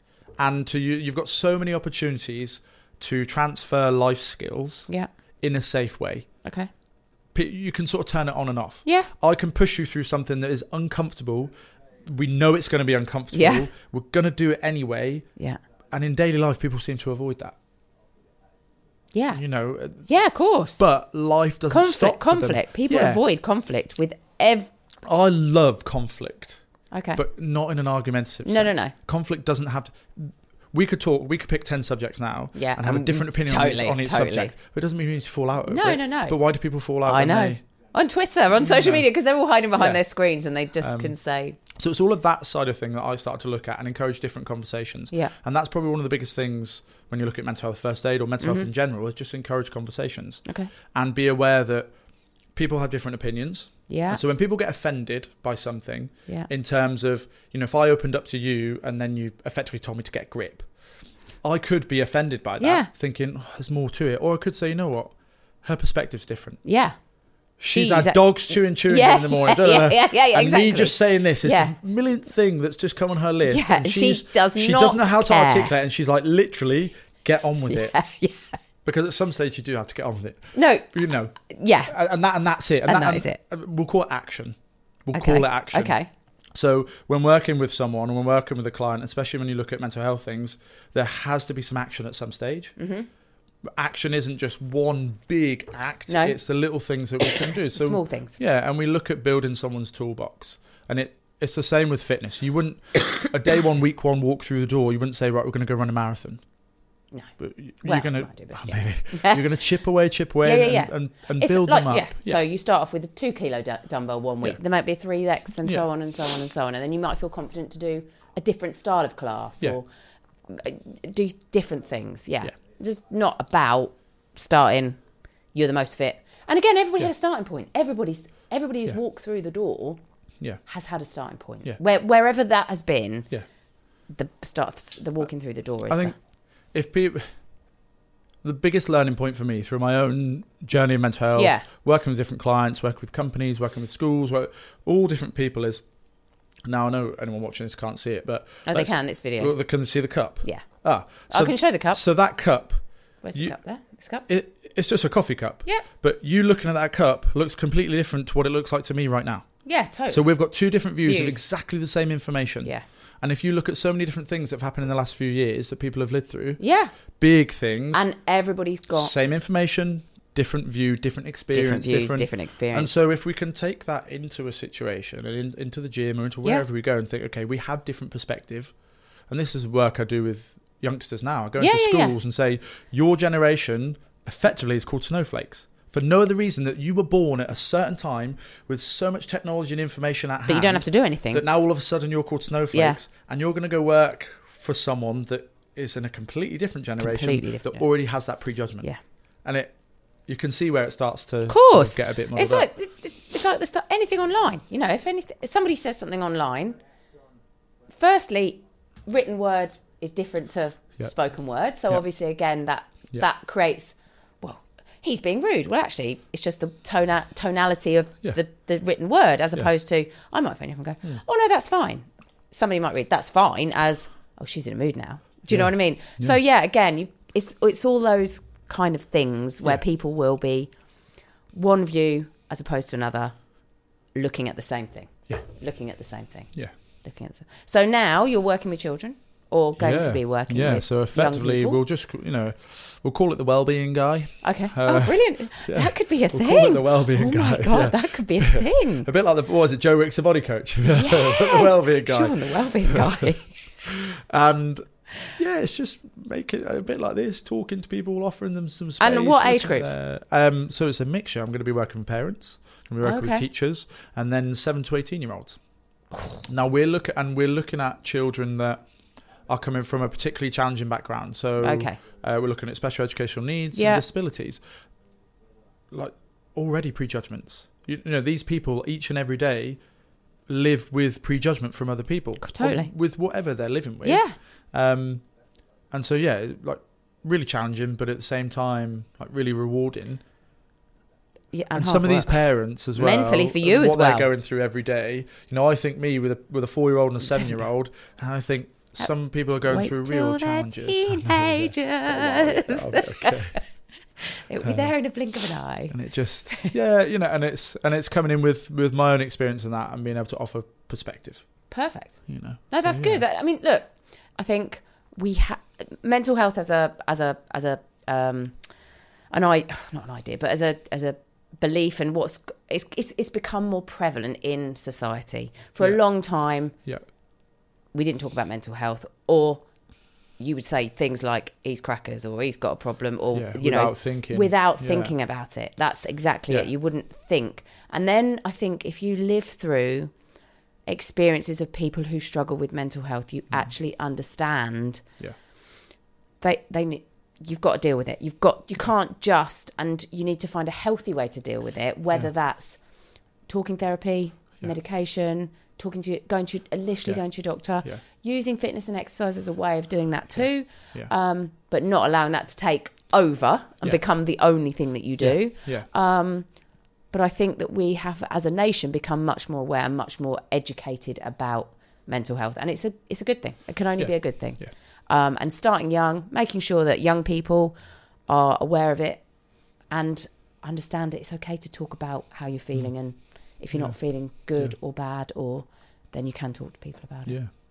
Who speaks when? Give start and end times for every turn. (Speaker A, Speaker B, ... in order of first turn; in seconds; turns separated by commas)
Speaker A: 0.4-4.9, Speaker A: 5.4-6.3, Speaker B: 6.4-6.7, Speaker A: 7.3-11.5, Speaker B: 8.9-9.1, Speaker A: 12.1-15.3, Speaker B: 13.3-13.7, Speaker A: 15.9-17.6, Speaker B: 19.1-19.4, Speaker A: 19.3-20.1, Speaker B: 20.1-20.8, Speaker A: 20.8-23.2, Speaker B: 21.7-24.7, Speaker A: 25.0-26.6, Speaker B: 26.9-27.2, Speaker A: 27.2-37.6, Speaker B: 28.4-28.9, Speaker B: 32.5-34.5, Speaker B: 35.7-36.4, Speaker B: 37.0-41.6, Speaker A: 38.7-39.1, Speaker A: 40.8-41.1, Speaker A: 41.8-50.4, Speaker B: 48.4-48.7, Speaker A: 50.9-51.9, Speaker A: 52.5-60.7, Speaker B: 53.9-54.2, Speaker A: 61.4-66.6, Speaker B: 62.6-62.9, Speaker B: 66.7-67.0, Speaker A: 67.6-78.0, Speaker B: 67.7-71.8, Speaker B: 73.5-75.7, Speaker B: 77.7-78.6, Speaker A: 78.8-81.4, Speaker B: 80.5-80.9, Speaker B: 81.5-82.0, Speaker A: 81.9-85.9, Speaker B: 82.9-83.4, Speaker B: 85.1-86.1, Speaker A: 86.5-92.7, Speaker B: 92.8-93.1, Speaker A: 93.8-106.4, Speaker B: 96.1-96.4, Speaker B: 97.7-98.4, Speaker A: 107.4-112.4, Speaker B: 107.8-109.5, Speaker B: 110.4-119.9, Speaker B: 120.5-125.0, Speaker B: 125.5-130.0, Speaker B: 130.7-133.3, Speaker B: 134.1-136.2, Speaker A: 135.9-136.2, Speaker A: 136.7-137.3, Speaker A: 138.4-145.8, Speaker B: 141.4-141.6, Speaker A: 146.7-152.8, Speaker B: 148.7-149.6, Speaker B: 151.3-152.0, Speaker B: 153.2-154.3, Speaker A: 154.3-159.5, Speaker B: 159.7-160.2, Speaker A: 160.1-166.6, Speaker B: 161.1-161.4, Speaker B: 166.6-166.9, Speaker A: 167.2-168.1, Speaker B: 167.9-169.1, Speaker A: 168.9-178.7, Speaker B: 171.5-172.9, Speaker A: 179.3-198.9, Speaker B: 181.6-182.2, Speaker B: 190.5-191.4, Speaker B: 192.7-193.0, Speaker B: 197.0-197.9, Speaker A: 199.4-199.7, Speaker A: 200.3-202.7, Speaker B: 201.5-206.8, Speaker B: 207.9-230.7, Speaker A: 225.5-226.3, Speaker B: 231.5-233.3, Speaker B: 234.2-236.5, Speaker B: 237.0-241.8, Speaker A: 239.8-253.1, Speaker B: 244.4-249.1, Speaker B: 250.9-253.6, Speaker A: 253.8-265.6, Speaker B: 259.0-260.0, Speaker B: 263.0-263.4, Speaker A: 266.5-268.8, Speaker A: 269.5-274.6, Speaker B: 271.6-272.0, Speaker B: 273.8-274.0, Speaker A: 275.9-279.8, Speaker A: 280.5-285.2, Speaker B: 282.4-282.9, Speaker B: 284.1-284.4, Speaker A: 285.9-290.2, Speaker B: 291.5-294.3, Speaker A: 291.7-303.6, Speaker B: 299.7-303.6, Speaker B: 304.2-305.9, Speaker A: 304.6-304.9, Speaker A: 305.9-311.4, Speaker B: 311.7-312.2, Speaker A: 312.3-313.2, Speaker B: 312.7-318.6, Speaker B: 319.3-326.8, Speaker B: 327.9-329.6, Speaker B: 330.4-340.1, Speaker A: 333.3-335.1, Speaker B: 340.9-345.0, Speaker B: 346.4-352.8, Speaker B: 353.5-366.5, Speaker A: 360.4-361.1, Speaker A: 365.2-365.9, Speaker B: 367.1-377.8, Speaker A: 374.0-374.7, Speaker B: 378.3-379.2, Speaker B: 379.9-387.4, Speaker A: 387.3-387.5